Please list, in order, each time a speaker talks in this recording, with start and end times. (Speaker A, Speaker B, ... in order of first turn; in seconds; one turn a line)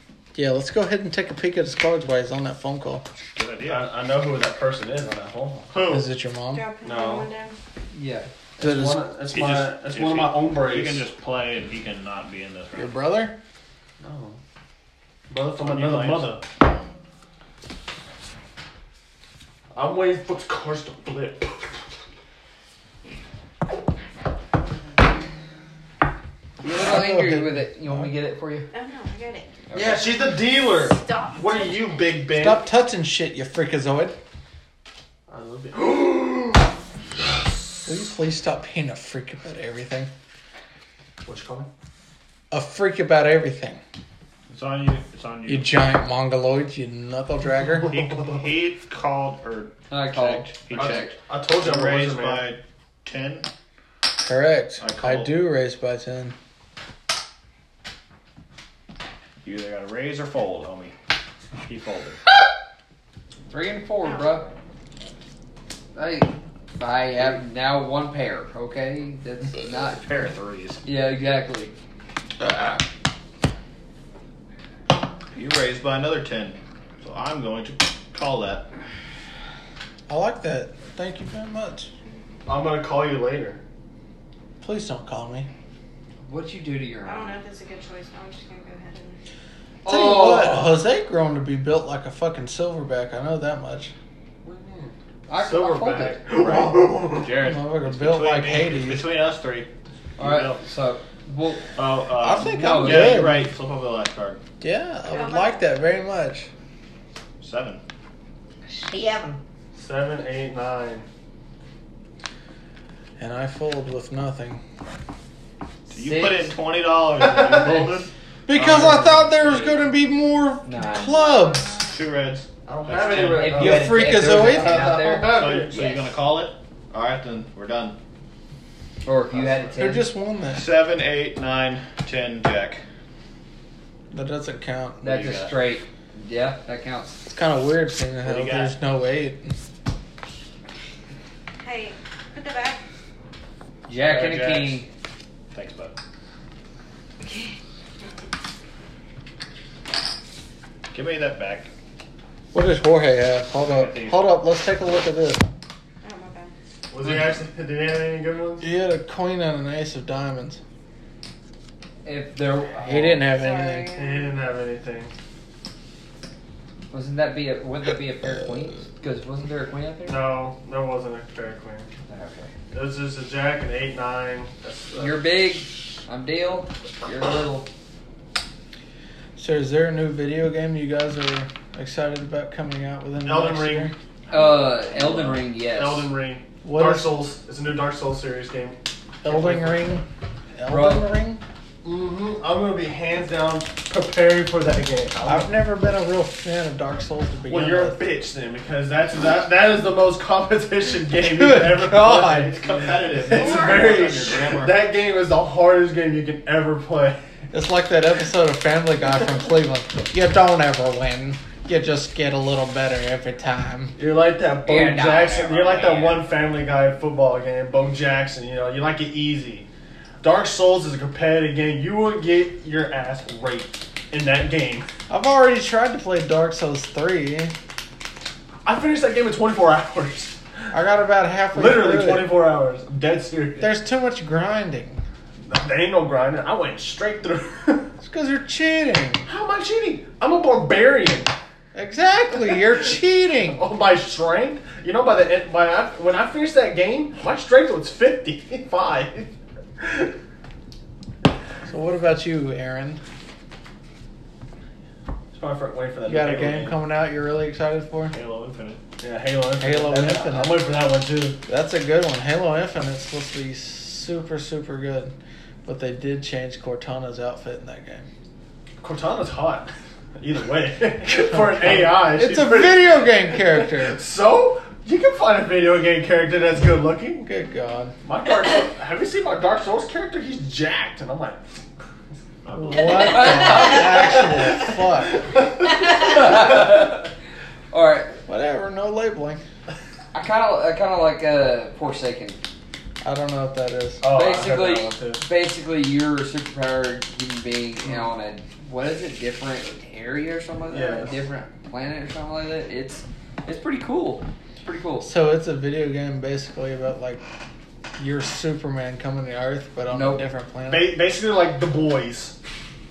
Speaker A: 0.3-3.0
Speaker B: 3.4-4.0
Speaker C: 3.6-6.1
Speaker A: 5.8-6.7
Speaker D: 6.5-7.6
Speaker C: 6.8-7.3
Speaker E: 7.9-8.3
Speaker C: 8.6-11.1
Speaker A: 8.6-9.1
Speaker B: 9.3-12.9
Speaker A: 12.8-13.3
Speaker C: 14.0-14.4
Speaker C: 15.3-16.4
Speaker B: 15.5-16.4
Speaker C: 19.7-21.8
Speaker E: 26.6-28.7
Speaker A: 26.6-28.1
Speaker D: 28.7-29.6
Speaker E: 29.7-30.1
Speaker C: 29.7-32.6
Speaker D: 30.7-32.0
Speaker A: 32.3-34.2
Speaker C: 35.3-36.7
Speaker A: 37.9-40.1
Speaker C: 41.2-41.7
Speaker A: 42.5-43.8
Speaker B: 44.5-45.8
Speaker A: 45.5-48.1
Speaker C: 47.9-48.4
Speaker B: 47.9-53.5
Speaker E: 49.9-51.1
Speaker C: 50.7-52.5
Speaker A: 54.2-56.4
Speaker B: 54.8-55.4
Speaker B: 59.4-60.9
Speaker B: 61.6-62.2
Speaker E: 63.5-64.5
Speaker D: 64.0-64.3
Speaker E: 66.0-70.0
Speaker B: 69.7-70.8
Speaker E: 70.8-71.7
Speaker B: 72.4-72.8
Speaker B: 75.3-78.7
Speaker A: 80.1-81.9
Speaker C: 82.5-83.6
Speaker A: 84.6-85.5
Speaker E: 86.3-87.4
Speaker D: 87.0-89.2
Speaker E: 89.8-90.8
Speaker A: 89.8-93.9
Speaker C: 94.4-97.3
Speaker E: 95.3-96.2
Speaker B: 96.3-100.6
Speaker A: 97.3-99.1
Speaker E: 100.2-101.8
Speaker B: 101.8-104.4
Speaker A: 102.2-103.5
Speaker E: 102.4-103.3
Speaker A: 104.6-106.5
Speaker D: 105.1-105.7
Speaker B: 107.4-107.8
Speaker D: 108.7-109.4
Speaker C: 109.8-111.1
Speaker A: 113.2-114.6
Speaker E: 115.9-116.6
Speaker B: 115.9-119.1
Speaker C: 117.2-117.9
Speaker E: 117.5-117.9
Speaker A: 118.5-121.8
Speaker E: 118.5-119.8
Speaker E: 120.7-121.2
Speaker D: 121.1-122.0
Speaker B: 121.9-123.6
Speaker C: 122.7-125.9
Speaker E: 123.0-125.9
Speaker A: 123.5-125.0
Speaker B: 125.3-128.0
Speaker E: 129.0-130.1
Speaker B: 129.4-129.7
Speaker A: 129.8-130.7
Speaker B: 130.5-132.8
Speaker A: 134.1-135.3
Speaker B: 135.0-135.6
Speaker E: 135.0-137.2
Speaker A: 137.3-139.5
Speaker B: 138.2-138.7
Speaker D: 141.6-142.8
Speaker E: 143.9-144.9
Speaker B: 144.0-144.8
Speaker B: 145.5-145.9
Speaker B: 150.9-151.7
Speaker A: 152.5-155.4
Speaker B: 153.6-154.4
Speaker D: 156.0-156.5
Speaker C: 156.9-158.7
Speaker A: 157.0-157.3
Speaker A: 158.6-160.6
Speaker E: 162.0-163.3
Speaker A: 162.8-163.9
Speaker D: 163.3-164.4
Speaker C: 163.9-165.1
Speaker E: 166.9-170.3
Speaker C: 170.1-171.9
Speaker E: 172.1-172.5
Speaker C: 172.7-175.2
Speaker E: 175.0-177.7
Speaker A: 179.4-183.9
Speaker C: 183.2-183.9
Speaker B: 184.3-185.5
Speaker E: 184.3-186.1
Speaker C: 185.6-188.8
Speaker A: 186.6-187.2
Speaker A: 189.2-190.1
Speaker A: 190.6-191.4
Speaker E: 190.7-191.1
Speaker C: 191.8-195.5
Speaker A: 195.2-198.0
Speaker C: 197.5-207.2
Speaker A: 201.2-202.6
Speaker B: 202.6-204.9
Speaker D: 203.3-204.2
Speaker A: 207.5-213.9
Speaker C: 214.0-219.7
Speaker E: 214.6-216.3
Speaker C: 220.2-224.9
Speaker A: 225.1-227.5
Speaker C: 228.7-230.4
Speaker A: 230.7-232.3
Speaker C: 231.5-233.7
Speaker A: 233.6-235.0
Speaker C: 235.5-237.9
Speaker A: 238.0-239.3
Speaker C: 239.3-241.3
Speaker A: 241.7-243.6
Speaker C: 243.5-250.1
Speaker A: 251.7-253.0
Speaker C: 255.3-256.8
Speaker A: 256.1-258.2
Speaker B: 258.1-258.8
Speaker C: 259.0-261.4
Speaker A: 259.6-260.7
Speaker A: 261.5-265.1
Speaker A: 265.6-268.1
Speaker C: 268.8-277.3
Speaker A: 271.3-274.0
Speaker A: 277.2-278.0
Speaker C: 278.0-281.6
Speaker B: 282.4-283.4
Speaker A: 282.5-285.2
Speaker E: 282.9-284.2
Speaker C: 284.2-286.2
Speaker E: 285.7-287.1
Speaker E: 287.7-288.1
Speaker A: 288.3-289.4
Speaker E: 290.1-292.4
Speaker A: 293.0-294.0
Speaker C: 294.0-295.2
Speaker E: 294.1-305.1
Speaker C: 300.7-301.2
Speaker A: 305.0-307.2
Speaker A: 308.0-310.9
Speaker E: 309.9-310.2
Speaker C: 310.7-312.4